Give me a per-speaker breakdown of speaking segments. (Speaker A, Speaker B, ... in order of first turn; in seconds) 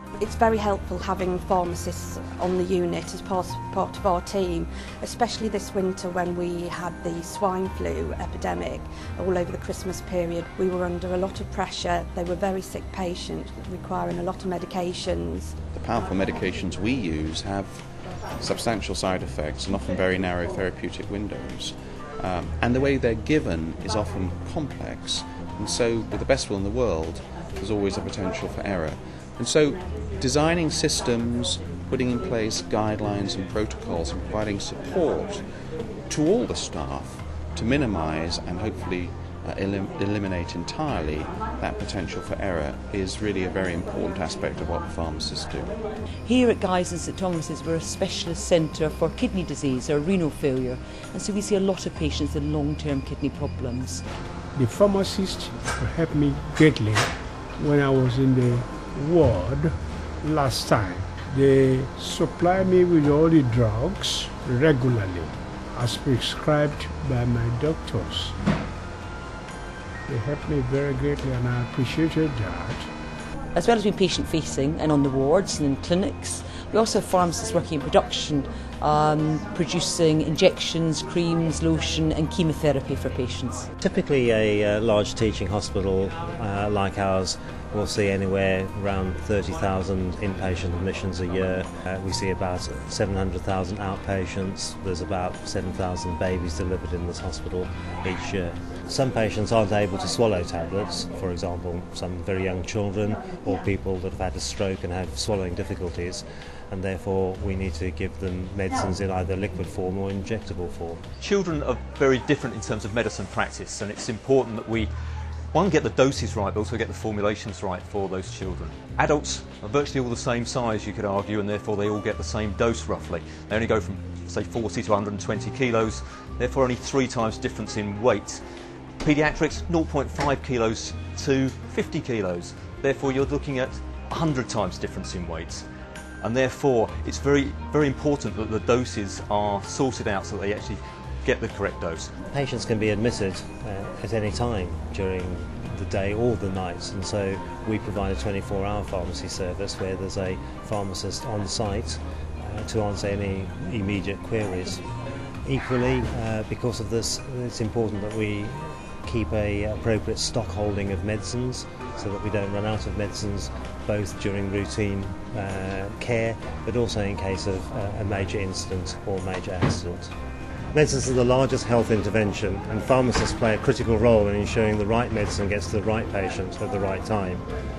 Speaker A: 0.2-15.6
Speaker B: 15.7-45.8
Speaker C: 46.2-54.0, 73.5-83.7
Speaker D: 54.5-68.3, 70.1-72.9
Speaker E: 83.8-111.0, 142.3-154.9, 155.4-170.1, 170.7-177.4
Speaker F: 111.2-114.9, 115.5-128.4, 129.0-135.7, 136.2-142.1